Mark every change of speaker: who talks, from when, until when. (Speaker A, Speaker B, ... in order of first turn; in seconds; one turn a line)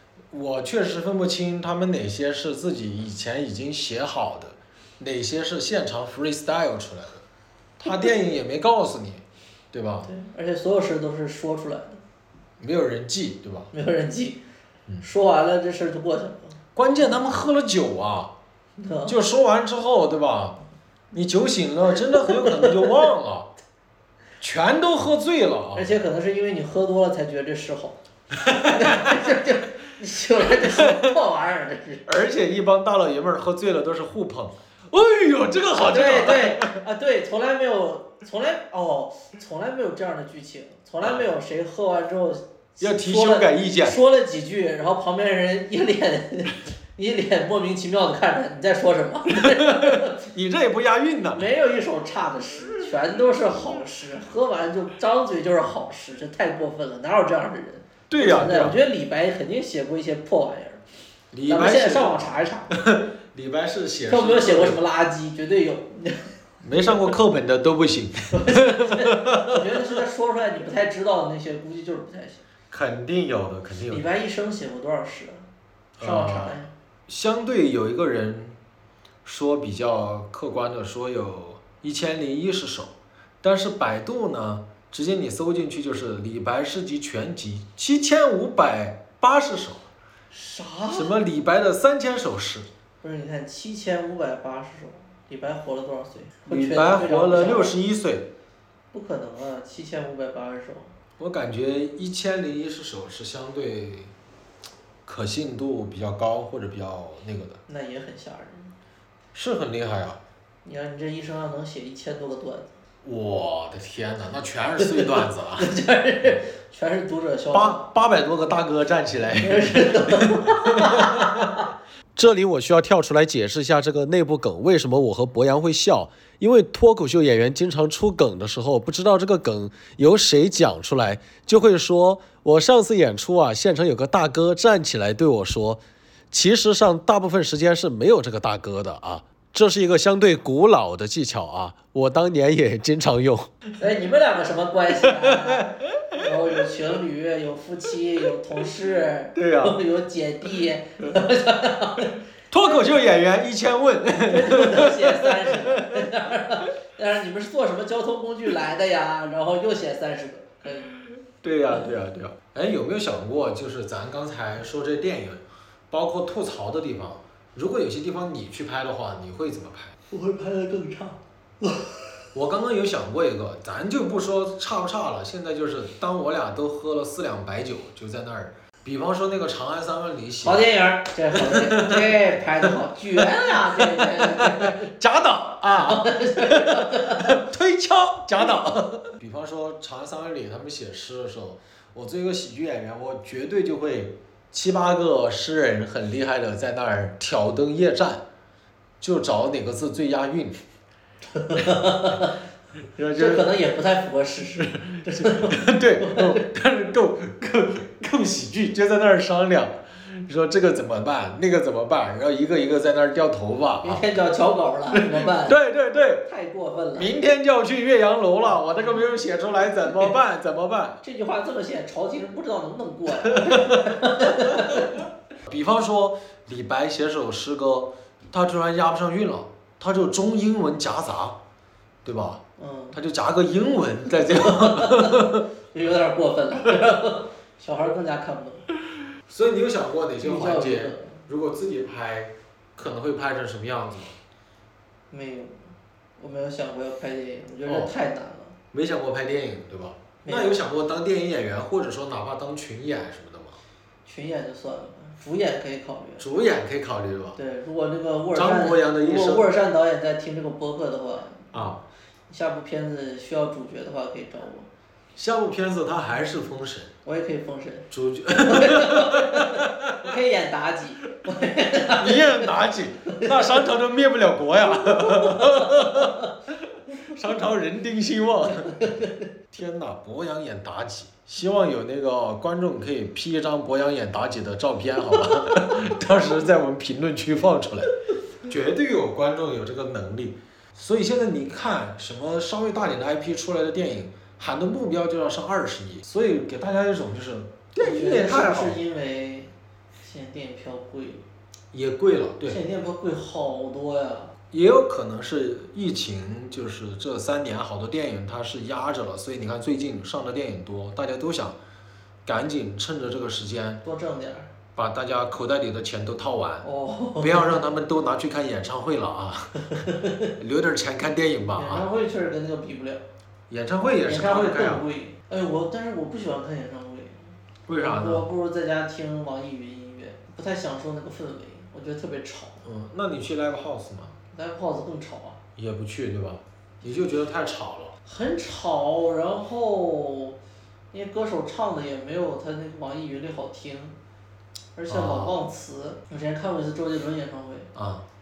Speaker A: 0.3-7.2
Speaker A: 7.8-10.1
Speaker B: 7.8-8.1
Speaker B: 10.0-12.0
Speaker A: 12.6-13.7
Speaker B: 13.7-14.4
Speaker B: 15.0-16.6
Speaker A: 16.7-18.3
Speaker B: 18.8-19.2
Speaker A: 19.1-20.6
Speaker A: 21.1-23.5
Speaker B: 22.1-23.0
Speaker A: 24.4-25.9
Speaker B: 25.7-32.1
Speaker A: 28.4-29.3
Speaker A: 30.4-31.1
Speaker A: 32.1-36.8
Speaker B: 35.8-50.2
Speaker A: 42.8-44.0
Speaker A: 49.3-51.5
Speaker B: 51.3-60.8
Speaker A: 58.1-58.8
Speaker A: 61.3-64.8
Speaker B: 61.5-62.7
Speaker B: 64.1-66.3
Speaker A: 66.6-69.9
Speaker B: 68.3-72.4
Speaker A: 72.7-74.0
Speaker B: 73.9-75.4
Speaker A: 76.0-78.6
Speaker B: 76.0-76.7
Speaker A: 79.2-89.8
Speaker B: 90.3-91.1
Speaker A: 90.9-92.7
Speaker B: 93.0-97.8
Speaker A: 96.5-98.3
Speaker B: 98.9-100.9
Speaker A: 101.2-104.1
Speaker A: 105.0-107.6
Speaker B: 107.7-108.7
Speaker A: 109.3-110.2
Speaker B: 110.6-112.8
Speaker A: 113.0-115.7
Speaker B: 114.8-117.8
Speaker A: 117.5-121.6
Speaker B: 119.4-121.7
Speaker A: 122.2-143.6
Speaker B: 143.8-153.0
Speaker A: 145.0-146.7
Speaker A: 149.3-149.8
Speaker A: 152.5-156.1
Speaker B: 154.2-160.9
Speaker A: 161.4-169.9
Speaker B: 170.1-172.0
Speaker A: 172.3-180.7
Speaker B: 180.4-184.9
Speaker A: 181.3-198.2
Speaker B: 185.7-187.4
Speaker A: 199.0-200.6
Speaker B: 201.3-202.4
Speaker A: 202.9-203.5
Speaker B: 203.1-206.4
Speaker A: 204.9-214.1
Speaker B: 213.8-215.6
Speaker A: 214.9-216.2
Speaker B: 216.2-217.1
Speaker A: 216.9-221.0
Speaker B: 221.0-225.0
Speaker A: 223.2-224.9
Speaker A: 225.4-231.4
Speaker A: 232.0-232.4
Speaker B: 232.6-233.0
Speaker A: 232.9-235.4
Speaker B: 234.3-238.7
Speaker A: 239.3-244.2
Speaker B: 240.2-241.2
Speaker B: 245.1-248.6
Speaker A: 247.6-247.9
Speaker A: 248.7-253.6
Speaker B: 250.2-250.6
Speaker B: 254.1-256.2
Speaker A: 256.2-257.4
Speaker B: 257.4-261.5
Speaker A: 258.3-259.5
Speaker A: 261.5-261.8
Speaker B: 262.3-264.7
Speaker A: 265.1-266.9
Speaker B: 267.0-272.5
Speaker A: 267.9-270.1
Speaker A: 271.9-278.9
Speaker B: 273.1-273.6
Speaker B: 274.8-276.3
Speaker B: 278.6-279.3
Speaker A: 279.5-287.9
Speaker A: 288.4-298.8
Speaker B: 297.8-299.5
Speaker B: 300.0-301.2
Speaker A: 301.7-302.6
Speaker B: 302.4-304.3
Speaker A: 304.5-311.6
Speaker A: 312.2-313.8
Speaker B: 313.8-314.5
Speaker A: 314.8-316.7
Speaker B: 316.6-317.6
Speaker A: 317.2-319.9
Speaker B: 319.8-320.3
Speaker A: 320.4-321.9
Speaker B: 321.5-323.0
Speaker A: 323.5-324.8
Speaker B: 324.1-332.6
Speaker A: 327.7-328.3
Speaker A: 332.6-334.1
Speaker B: 334.3-335.4
Speaker A: 335.6-337.9
Speaker B: 338.1-340.4
Speaker B: 340.9-344.0
Speaker B: 344.8-347.7
Speaker A: 344.9-345.4
Speaker A: 347.7-348.0